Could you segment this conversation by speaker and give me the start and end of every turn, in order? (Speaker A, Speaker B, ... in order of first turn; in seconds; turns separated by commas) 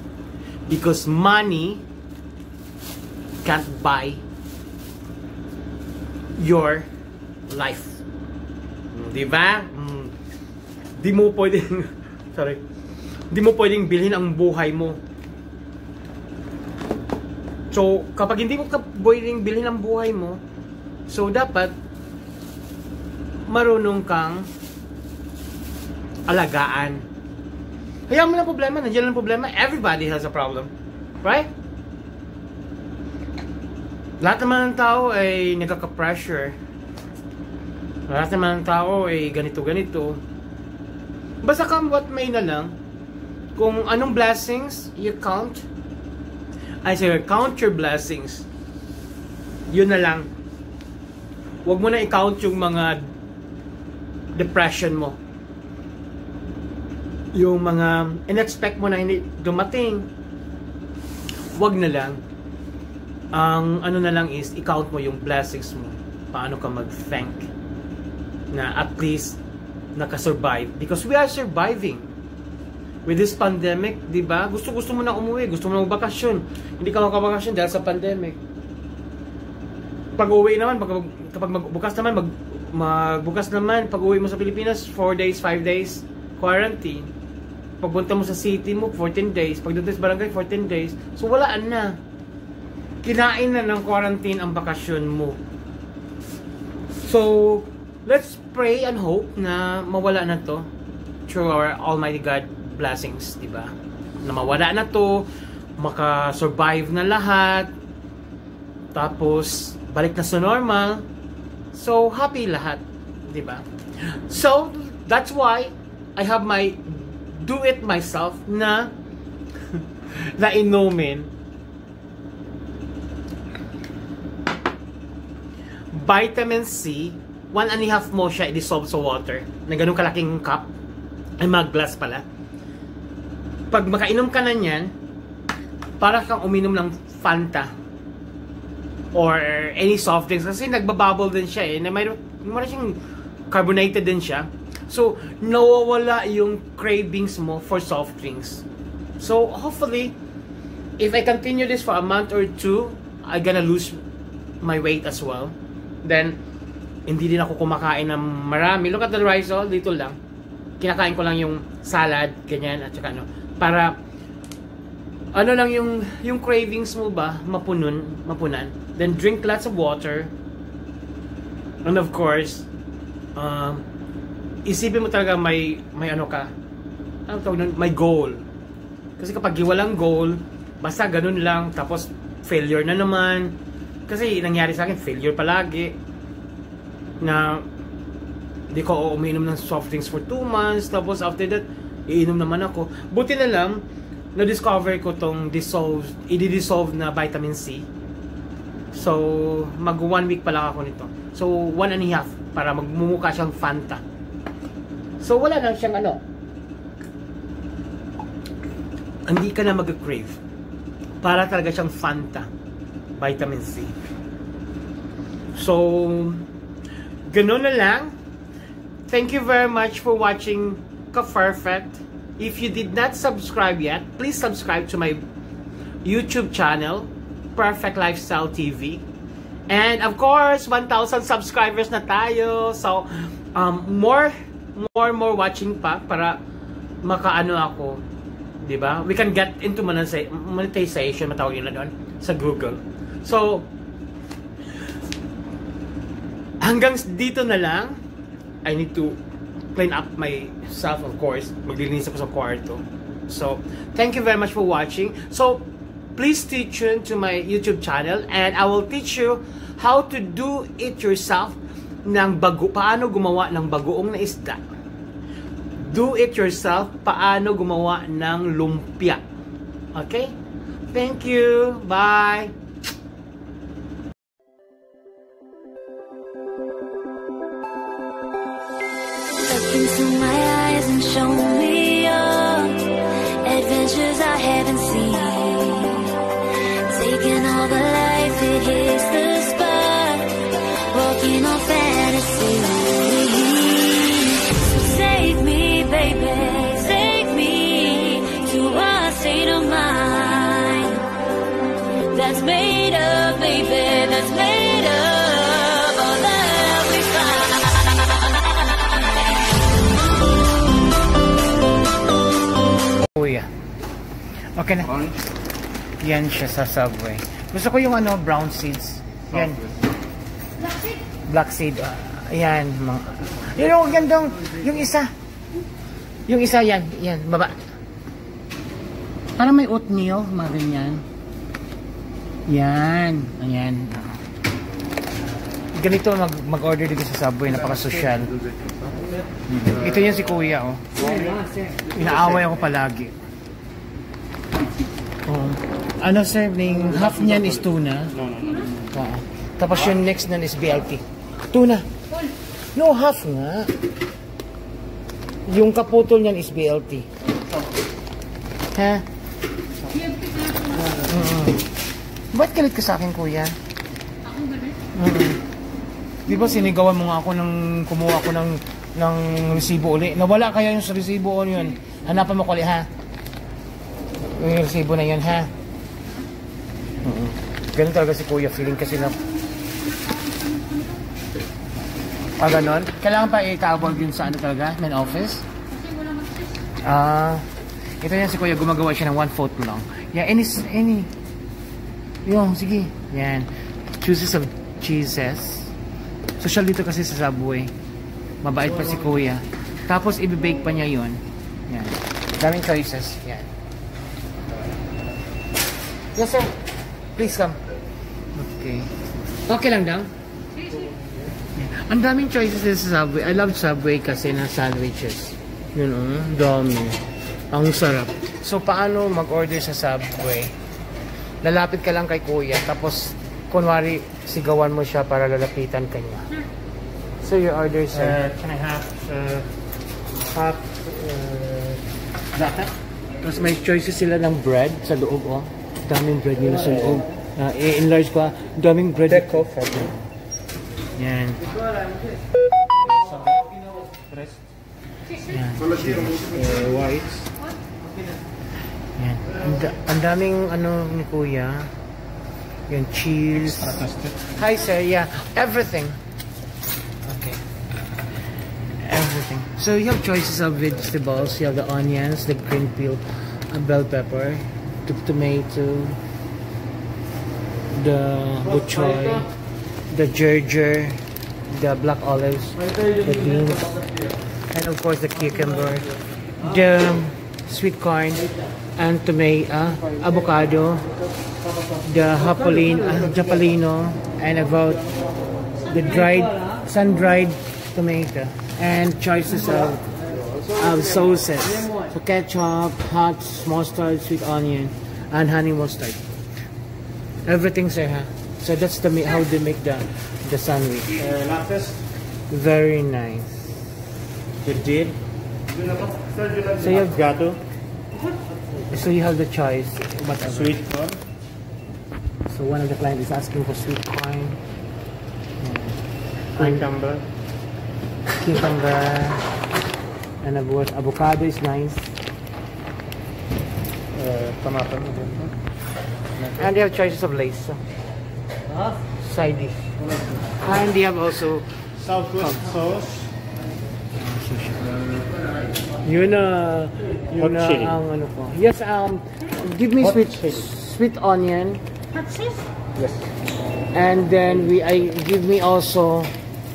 Speaker A: 0.7-1.8, Speaker A: 3.4-4.2, Speaker A: 6.4-6.9, Speaker A: 7.5-8.0, Speaker A: 8.9-10.1, Speaker A: 11.0-12.6, Speaker A: 13.3-15.0, Speaker A: 17.7-20.4, Speaker A: 21.1-21.7, Speaker A: 23.5-24.5, Speaker A: 26.3-27.0, Speaker A: 28.1-30.7, Speaker A: 31.2-31.5, Speaker A: 34.2-36.5, Speaker A: 38.1-40.2, Speaker A: 41.4-42.7, Speaker A: 43.5-45.6, Speaker A: 46.8-48.5, Speaker A: 49.7-50.3, Speaker A: 51.6-53.0, Speaker A: 54.4-55.2, Speaker A: 57.3-60.0, Speaker A: 61.5-62.2, Speaker A: 63.3-67.5, Speaker A: 68.5-69.4, Speaker A: 70.0-72.1, Speaker A: 73.0-78.4, Speaker A: 80.2-87.1, Speaker A: 87.8-92.0, Speaker A: 93.0-95.4, Speaker A: 97.0-100.7, Speaker A: 101.3-107.7, Speaker A: 108.9-111.0, Speaker A: 111.7-118.9, Speaker A: 119.7-121.3, Speaker A: 125.9-130.7, Speaker A: 131.4-132.2, Speaker A: 133.7-134.9, Speaker A: 136.0-137.7, Speaker A: 139.1-148.6, Speaker A: 149.2-150.2, Speaker A: 151.0-154.0, Speaker A: 154.6-156.4, Speaker A: 157.1-160.2, Speaker A: 160.8-164.0, Speaker A: 165.3-170.3, Speaker A: 171.8-172.7, Speaker A: 173.3-173.8, Speaker A: 174.6-176.5, Speaker A: 177.3-178.4, Speaker A: 179.2-183.6, Speaker A: 184.1-186.0, Speaker A: 187.2-187.6, Speaker A: 188.7-193.8, Speaker A: 194.3-197.9, Speaker A: 198.9-204.0, Speaker A: 205.2-206.2, Speaker A: 209.3-210.4, Speaker A: 211.2-212.5, Speaker A: 213.2-213.9, Speaker A: 215.5-216.4, Speaker A: 217.3-218.1, Speaker A: 219.1-225.2, Speaker A: 226.0-229.0, Speaker A: 229.7-236.4, Speaker A: 237.0-238.0, Speaker A: 238.6-243.7, Speaker A: 246.6-248.0, Speaker A: 248.6-249.2, Speaker A: 249.7-264.6, Speaker A: 265.8-269.2, Speaker A: 269.9-270.4, Speaker A: 270.9-272.5, Speaker B: 279.4-286.2, Speaker B: 286.9-301.1, Speaker B: 302.1-308.6, Speaker A: 313.1-313.5, Speaker A: 314.6-315.0, Speaker A: 316.0-319.6, Speaker A: 321.2-325.1, Speaker A: 326.3-327.6, Speaker A: 329.4-331.0, Speaker A: 332.5-334.1, Speaker A: 335.8-338.3, Speaker A: 339.5-340.8, Speaker A: 341.9-343.1, Speaker A: 345.2-348.2, Speaker A: 348.9-351.9, Speaker A: 352.7-353.7, Speaker A: 355.5-357.1, Speaker A: 358.7-359.0, Speaker A: 360.8-361.7, Speaker A: 362.3-363.6, Speaker A: 364.9-365.4, Speaker A: 366.2-372.9, Speaker A: 374.2-375.5, Speaker A: 377.0-379.2, Speaker A: 382.4-385.4, Speaker A: 386.8-387.4, Speaker A: 388.0-391.1, Speaker A: 392.2-393.5, Speaker A: 394.0-395.7, Speaker A: 396.4-397.7, Speaker A: 398.4-403.5, Speaker A: 406.1-406.6, Speaker A: 407.1-407.6, Speaker A: 408.4-408.9, Speaker A: 409.5-410.1, Speaker A: 411.6-420.5, Speaker A: 421.4-426.3, Speaker A: 427.2-428.2, Speaker C: 427.9-429.4, Speaker C: 430.2-431.8, Speaker C: 432.4-432.7, Speaker A: 433.2-439.4, Speaker C: 436.8-437.0, Speaker C: 439.1-440.0, Speaker A: 440.9-441.5, Speaker C: 442.8-444.4, Speaker A: 445.2-446.7, Speaker C: 446.2-447.2, Speaker A: 449.0-451.7, Speaker A: 452.7-453.8, Speaker C: 453.4-454.2, Speaker A: 454.4-456.0, Speaker A: 457.0-457.4, Speaker A: 458.8-466.0, Speaker A: 467.7-469.3, Speaker A: 469.9-473.8, Speaker A: 474.5-475.9, Speaker A: 476.4-480.9, Speaker A: 481.8-484.8, Speaker A: 485.7-489.9, Speaker A: 490.5-496.0, Speaker A: 497.2-501.0, Speaker C: 501.0-501.8, Speaker A: 502.3-503.6, Speaker A: 504.4-504.9, Speaker C: 506.0-507.4, Speaker A: 506.6-507.1, Speaker A: 508.7-510.6, Speaker C: 510.3-511.0, Speaker A: 512.3-514.4, Speaker A: 515.4-515.8, Speaker C: 516.4-517.0, Speaker A: 518.2-519.3, Speaker A: 520.2-521.9, Speaker C: 523.9-525.3, Speaker C: 526.2-526.4, Speaker A: 526.4-527.6, Speaker A: 529.0-529.6, Speaker A: 530.4-531.5, Speaker C: 531.8-533.1, Speaker A: 534.0-534.7, Speaker A: 535.8-541.6, Speaker C: 537.1-537.8, Speaker C: 540.0-540.4, Speaker A: 543.7-546.1